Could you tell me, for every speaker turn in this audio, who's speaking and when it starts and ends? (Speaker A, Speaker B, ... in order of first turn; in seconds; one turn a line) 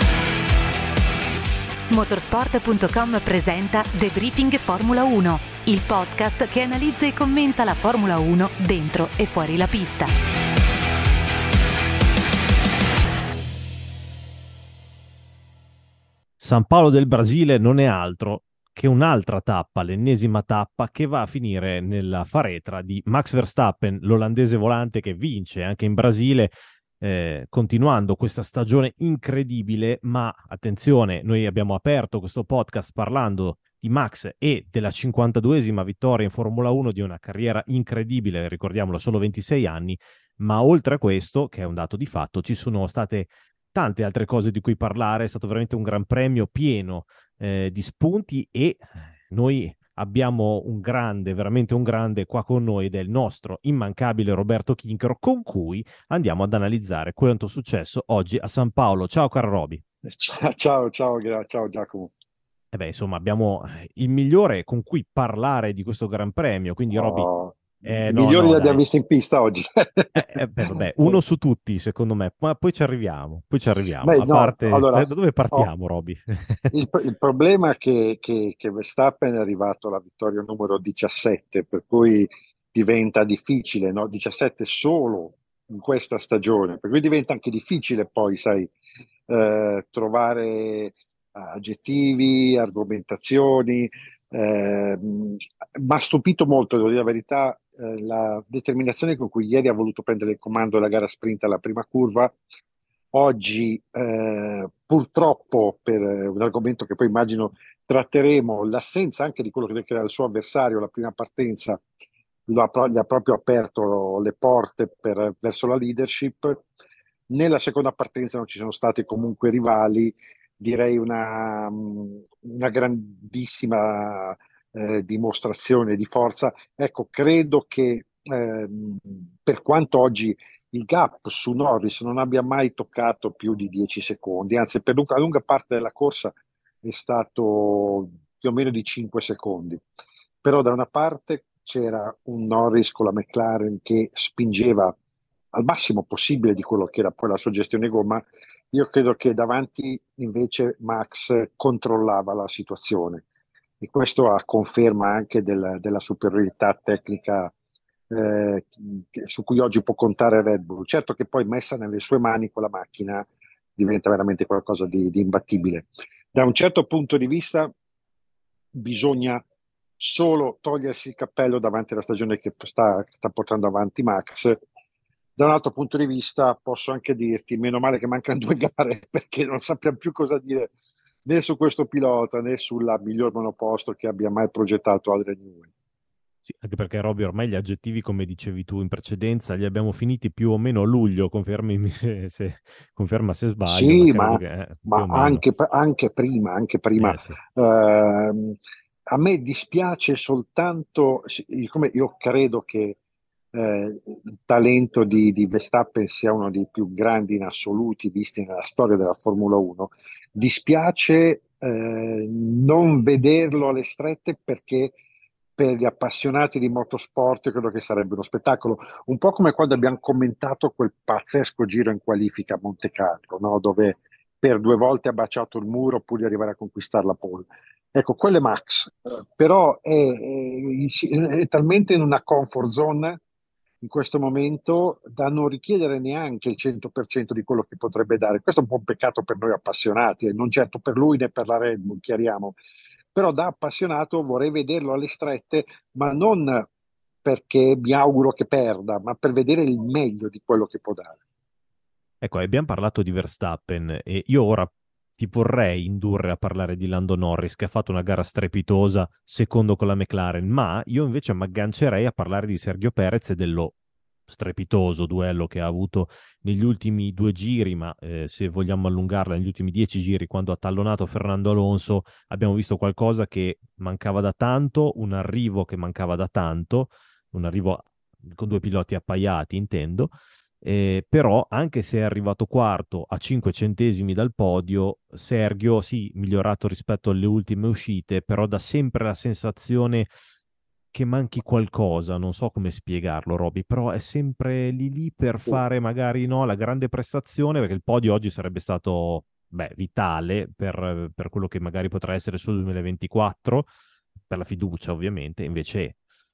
Speaker A: 1.9-10.1
Speaker B: 16.4-59.8
Speaker C: 60.0-62.1
Speaker B: 62.7-67.3
Speaker C: 66.9-71.2
Speaker B: 67.8-68.8
Speaker B: 70.1-76.7
Speaker C: 74.0-75.7
Speaker C: 76.7-88.7
Speaker C: 89.3-102.3
Speaker C: 103.1-111.8
Speaker C: 112.5-116.6
Speaker C: 117.3-139.8
Speaker C: 140.4-144.9
Speaker C: 145.5-153.2
Speaker C: 153.8-157.5
Speaker C: 158.1-167.7
Speaker C: 168.7-169.4
Speaker C: 170.0-174.6
Speaker C: 175.4-180.7
Speaker C: 181.2-185.7
Speaker B: 186.4-195.4
Speaker C: 193.7-198.6
Speaker B: 197.0-197.4
Speaker C: 199.1-203.0
Speaker C: 203.5-214.9
Speaker C: 215.6-233.2
Speaker C: 233.8-242.6
Speaker C: 243.1-246.7
Speaker C: 247.2-251.2
Speaker B: 252.2-263.7
Speaker B: 264.3-290.1
Speaker B: 290.9-303.7
Speaker B: 304.3-306.0